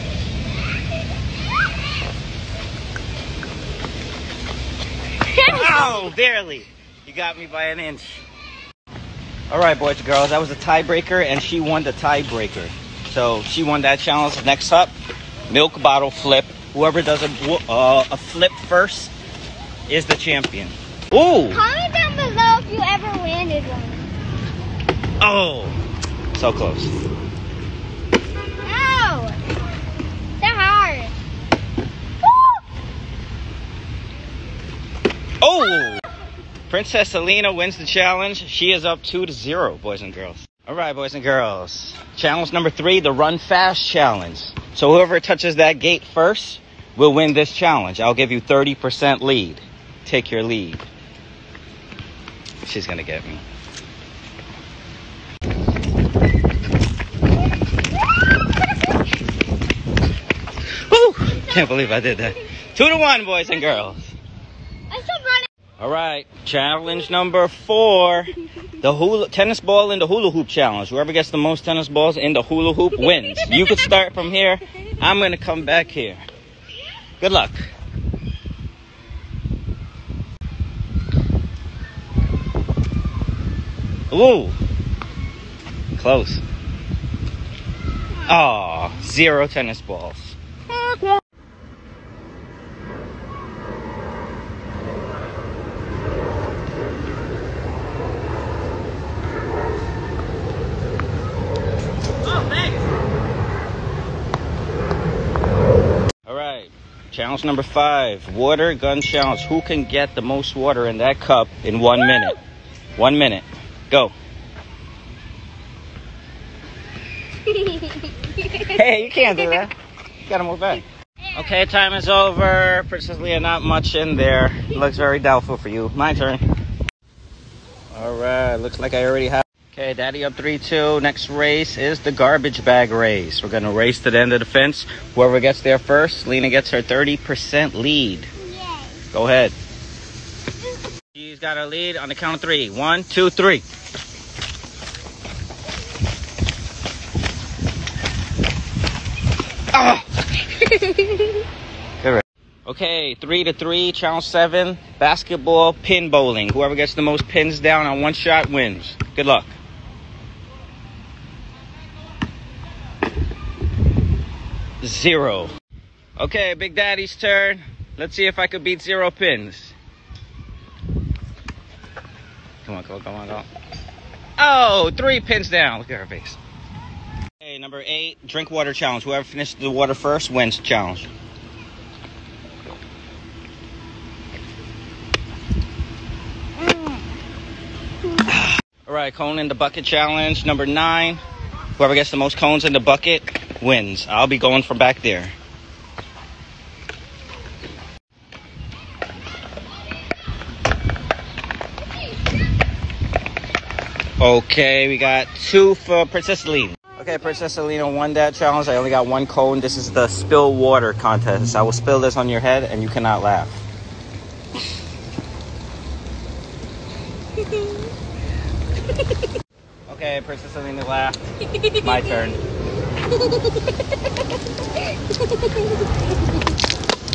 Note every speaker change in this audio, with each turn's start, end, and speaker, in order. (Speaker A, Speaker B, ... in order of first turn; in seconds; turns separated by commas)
Speaker A: 5.3-6.1, Speaker B: 5.4-8.2, Speaker B: 9.5-14.9, Speaker B: 15.5-19.1, Speaker B: 19.9-21.6, Speaker A: 21.5-24.1, Speaker B: 25.2-25.8, Speaker B: 26.3-26.9, Speaker A: 28.6-29.4, Speaker A: 30.4-31.1, Speaker B: 35.4-36.0, Speaker B: 36.7-50.9, Speaker B: 52.6-53.4, Speaker B: 60.9-64.2, Speaker A: 64.9-65.5, Speaker B: 65.8-76.2, Speaker A: 73.2-73.6, Speaker B: 77.2-77.7, Speaker B: 84.1-84.6, Speaker B: 86.0-86.4, Speaker B: 88.2-90.4, Speaker B: 106.3-112.4, Speaker B: 113.0-114.1, Speaker A: 117.5-118.4, Speaker B: 118.5-119.7, Speaker B: 120.3-126.4, Speaker B: 127.9-138.3, Speaker A: 138.4-139.0, Speaker B: 139.1-139.6, Speaker B: 141.1-143.7, Speaker B: 149.7-150.1, Speaker A: 150.7-151.0, Speaker B: 152.0-159.6, Speaker B: 164.8-165.5, Speaker B: 166.2-169.8, Speaker B: 172.7-173.5, Speaker B: 174.4-176.4, Speaker B: 177.4-181.1, Speaker B: 188.2-191.2, Speaker B: 191.8-195.3, Speaker B: 204.2-213.6, Speaker B: 219.9-222.4